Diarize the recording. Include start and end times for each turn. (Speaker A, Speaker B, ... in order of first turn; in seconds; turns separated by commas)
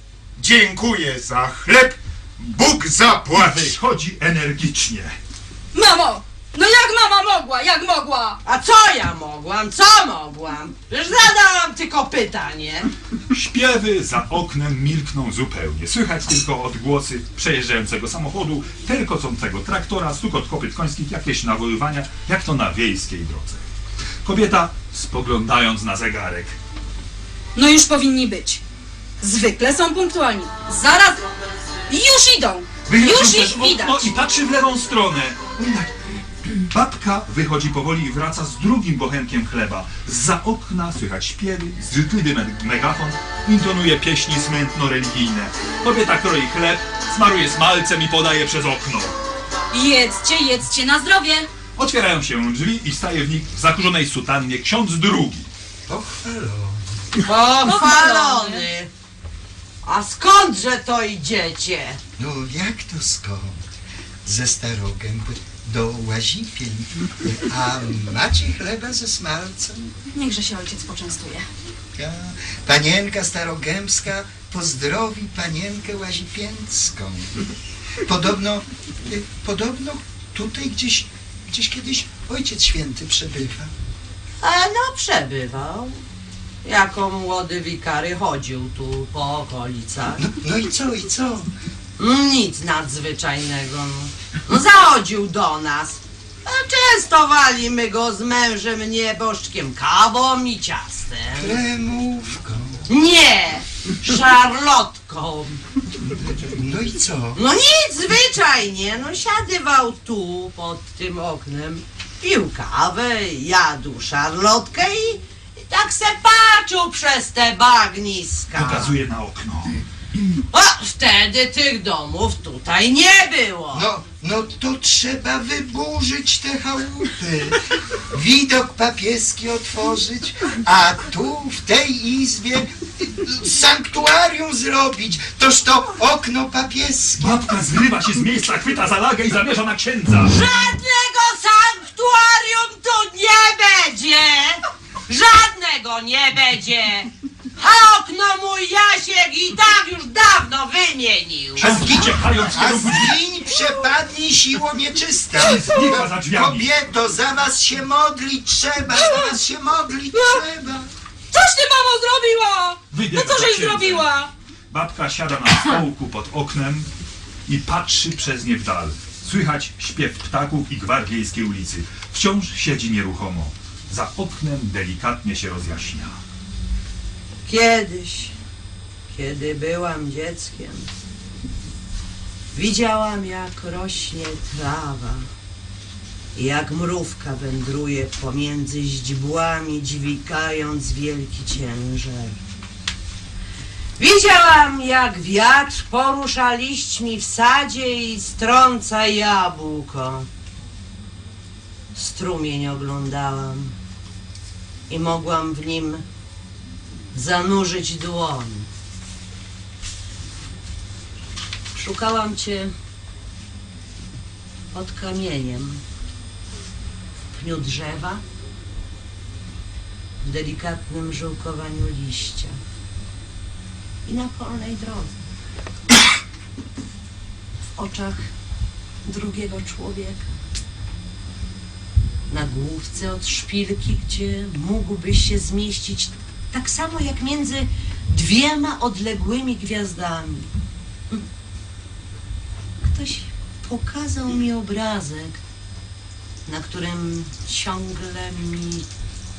Speaker A: 0.4-3.8, Speaker B: 3.3-5.2, Speaker C: 5.7-8.4, Speaker D: 8.4-12.9, Speaker B: 13.3-23.6, Speaker B: 24.2-26.6, Speaker C: 27.6-28.6, Speaker C: 29.2-31.3, Speaker C: 31.9-34.1, Speaker B: 32.9-35.9, Speaker B: 36.4-49.1, Speaker C: 49.7-51.5, Speaker B: 51.8-55.5, Speaker E: 55.9-56.8, Speaker D: 57.2-58.9, Speaker C: 57.6-58.7, Speaker D: 59.8-62.0, Speaker E: 62.2-63.6, Speaker E: 64.2-69.9, Speaker C: 70.2-71.5, Speaker E: 72.0-77.4, Speaker E: 78.0-83.7, Speaker D: 84.4-86.0, Speaker D: 86.6-90.2, Speaker E: 90.2-91.5, Speaker D: 92.0-101.6, Speaker E: 101.3-102.8, Speaker D: 102.9-105.6, Speaker E: 106.2-107.4, Speaker D: 107.3-119.0, Speaker B: 118.5-119.8, Speaker D: 120.5-123.9, Speaker E: 123.7-127.6, Speaker E: 128.1-137.4, Speaker B: 137.2-140.3, Speaker D: 140.2-151.8, Speaker B: 151.6-153.2, Speaker E: 151.6-160.9, Speaker B: 155.4-156.7, Speaker C: 159.0-159.3, Speaker C: 160.1-160.4, Speaker C: 161.3-164.3, Speaker B: 162.9-164.1, Speaker B: 164.7-166.9, Speaker B: 167.5-176.2, Speaker D: 177.5-178.3, Speaker D: 179.1-180.9, Speaker D: 182.5-185.2, Speaker D: 186.3-192.4, Speaker D: 194.0-200.3, Speaker D: 201.9-203.8, Speaker D: 204.9-206.0, Speaker D: 207.1-208.7, Speaker D: 211.7-212.7, Speaker D: 214.7-215.8, Speaker D: 217.3-218.2, Speaker D: 220.2-222.6, Speaker D: 224.1-225.2, Speaker D: 227.8-228.3, Speaker D: 229.1-230.4, Speaker D: 232.3-240.5, Speaker D: 242.8-245.4, Speaker D: 246.5-248.8